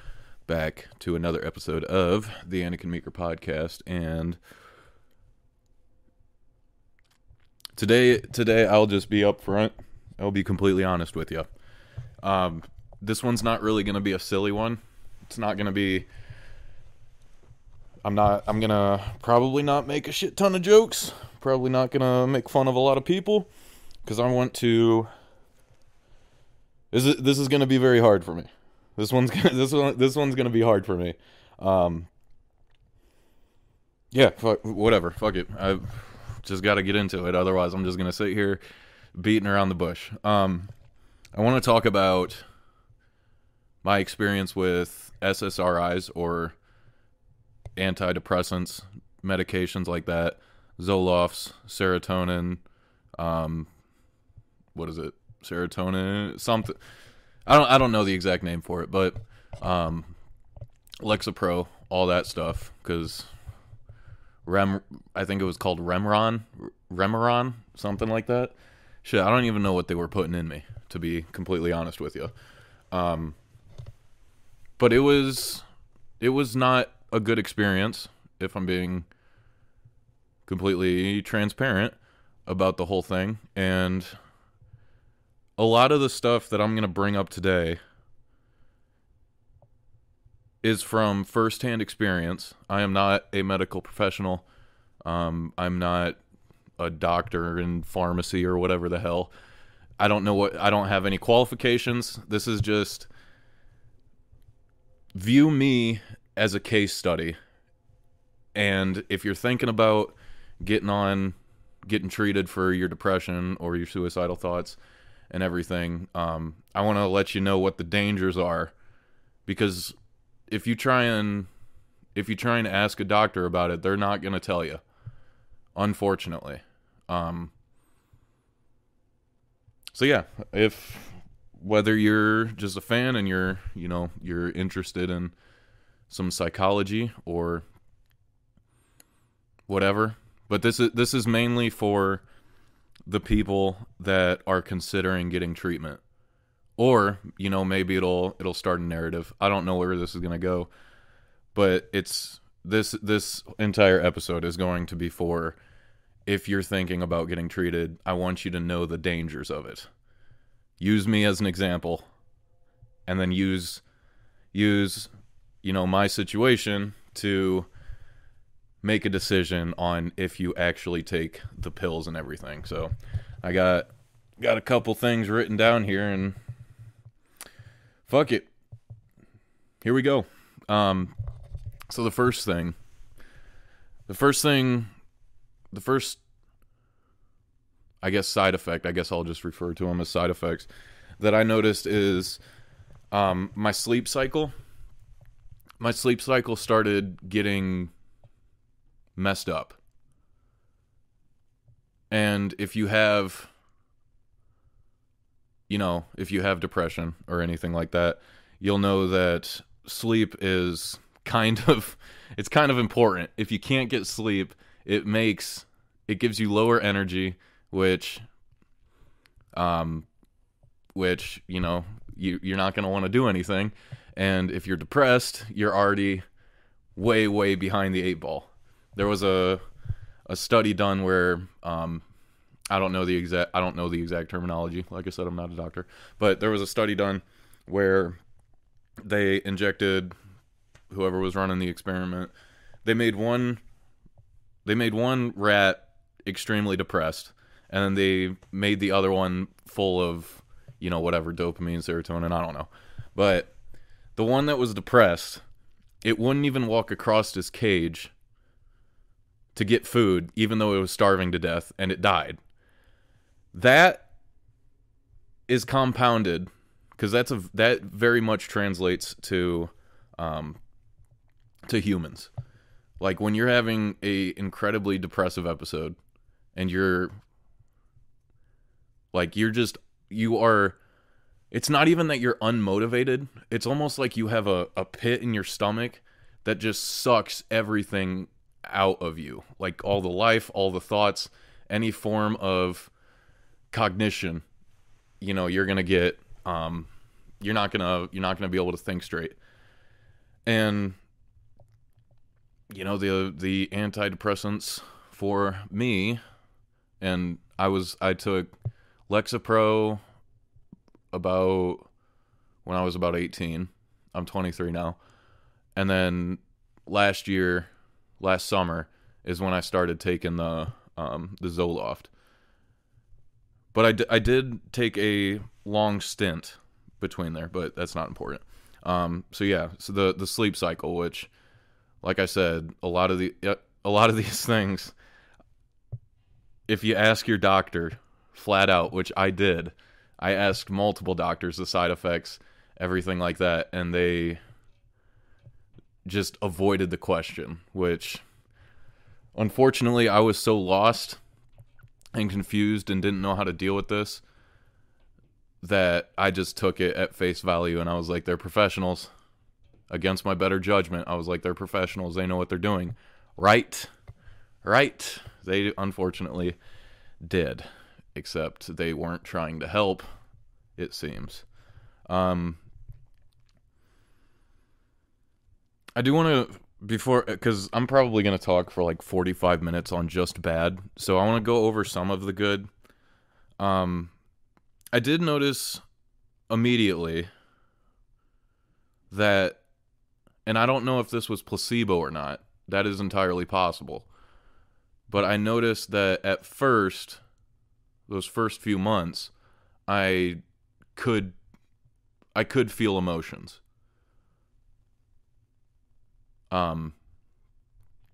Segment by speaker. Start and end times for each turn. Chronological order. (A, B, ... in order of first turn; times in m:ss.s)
0:00.5-0:04.4 A
0:07.8-0:11.5 A
0:12.2-0:16.1 A
0:18.0-0:23.5 A
0:24.0-0:25.1 A
0:26.9-0:32.1 A
0:34.1-0:38.6 A
0:39.1-0:40.7 A
0:41.4-0:42.4 A
0:43.8-0:46.5 A
0:47.8-0:52.6 A
0:53.2-0:53.7 A
0:54.7-0:56.8 A
0:57.4-1:00.1 A
1:01.0-1:03.3 A
1:04.4-1:12.3 A
1:12.9-1:13.4 A
1:14.8-1:15.6 A
1:16.2-1:19.1 A
1:20.4-1:22.0 A
1:22.5-1:24.2 A
1:25.6-1:27.8 A
1:30.6-1:34.4 A
1:35.0-1:36.2 A
1:36.8-1:39.3 A
1:40.0-1:43.1 A
1:45.1-1:47.4 A
1:48.5-1:51.3 A
1:51.8-1:54.8 A
1:55.3-1:58.7 A
1:59.4-1:59.9 A
2:00.5-2:01.5 A
2:02.2-2:04.8 A
2:05.8-2:07.5 A
2:09.9-2:15.3 A
2:16.1-2:17.6 A
2:19.7-2:22.2 A
2:23.1-2:26.0 A
2:26.8-2:30.7 A
2:31.5-2:35.6 A
2:36.2-2:39.9 A
2:40.8-2:42.0 A
2:43.1-2:43.8 A
2:44.5-2:45.1 A
2:45.6-2:47.7 A
2:48.8-2:53.9 A
2:54.4-2:56.4 A
2:58.0-2:58.5 A
2:59.8-3:01.1 A
3:01.9-3:02.7 A
3:04.1-3:04.9 A
3:05.7-3:06.2 A
3:08.0-3:10.7 A
3:11.2-3:12.4 A
3:13.1-3:14.5 A
3:15.8-3:17.9 A
3:19.2-3:19.8 A
3:22.1-3:23.5 A
3:25.7-3:38.2 A
3:39.5-3:40.1 A
3:41.0-3:46.2 A
3:47.0-3:49.6 A
3:50.3-3:52.0 A
3:52.7-3:58.2 A
3:59.0-4:00.1 A
4:00.9-4:02.3 A
4:02.8-4:03.6 A
4:04.6-4:13.5 A
4:14.2-4:15.4 A
4:16.0-4:18.1 A
4:19.5-4:22.4 A
4:23.5-4:24.1 A
4:25.5-4:30.6 A
4:31.7-4:32.3 A
4:33.0-4:36.0 A
4:36.5-4:37.1 A
4:39.1-4:40.8 A
4:41.5-4:52.9 A
4:53.7-4:54.4 A
4:55.2-4:56.9 A
4:57.4-4:59.4 A
5:00.4-5:01.0 A
5:02.7-5:06.2 A
5:07.0-5:08.5 A
5:09.1-5:10.0 A
5:11.1-5:11.9 A
5:12.6-5:15.0 A
5:15.8-5:17.7 A
5:18.2-5:22.1 A
5:23.7-5:31.3 A
5:32.0-5:34.9 A
5:36.7-5:44.4 A
5:46.0-5:48.2 A
5:49.4-5:51.2 A
5:52.1-5:54.2 A
5:55.6-5:59.1 A
5:59.9-6:03.9 A
6:04.6-6:06.6 A
6:07.2-6:10.0 A
6:10.8-6:11.4 A
6:12.1-6:12.6 A
6:16.0-6:22.7 A
6:23.6-6:24.1 A
6:24.9-6:25.8 A
6:26.5-6:27.3 A
6:29.1-6:29.6 A
6:30.4-6:34.1 A
6:35.1-6:37.2 A
6:38.1-6:39.3 A
6:39.9-6:40.4 A
6:41.0-6:41.4 A
6:42.3-6:43.6 A
6:46.5-6:46.9 A